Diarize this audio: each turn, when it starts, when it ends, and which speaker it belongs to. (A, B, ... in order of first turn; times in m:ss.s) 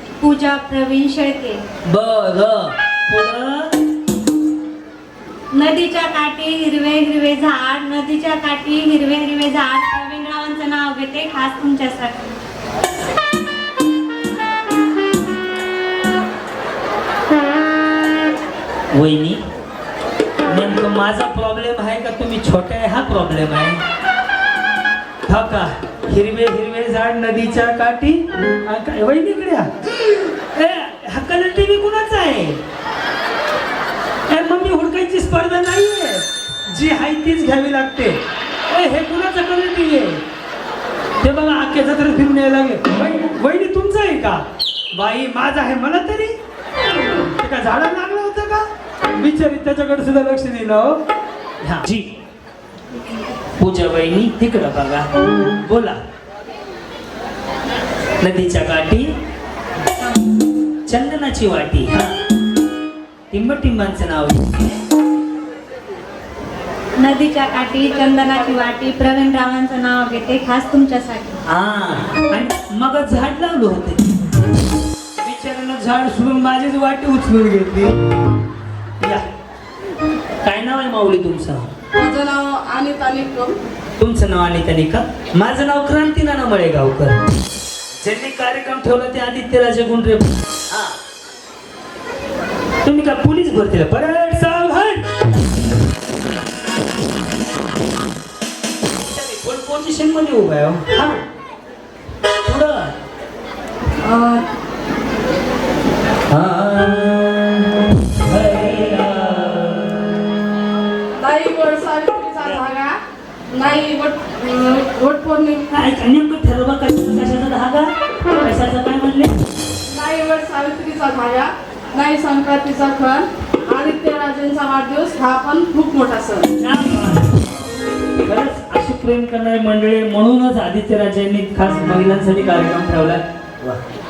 0:00.2-0:01.6 A
0:01.8-0:03.7 B
0:05.5-0:12.3 A
0:18.9-0:19.4 B
0:20.5-0:23.8 B
0:25.3-0:29.7 B
0:30.5-0:32.6 B
0:34.3-0:38.2 B
0:38.7-0:40.2 B
0:41.2-0:44.4 B
0:44.9-0:46.3 B
0:47.4-0:48.6 B
0:49.2-0:51.0 B
0:51.6-0:52.0 B
0:53.6-0:55.1 B
0:55.6-0:56.0 B
0:58.2-0:59.1 B
1:00.9-1:02.1 B
1:03.3-1:04.8 B
1:07.0-1:11.3 A
1:11.4-1:14.1 B
1:15.2-1:18.0 B
1:20.4-1:21.7 B
1:22.2-1:23.5 C
1:24.0-1:27.2 B
1:28.0-1:30.9 B
1:32.8-1:35.0 B
1:39.0-1:41.2 B
1:42.4-1:42.9 B
1:44.0-1:44.4 C
1:46.3-1:50.0 B
1:51.6-1:52.9 C
1:53.6-1:55.4 C
1:55.7-1:59.3 B
2:00.1-2:01.4 C
2:02.0-2:03.1 C
2:03.8-2:06.4 C
2:06.6-2:07.4 B
2:08.2-2:13.8 B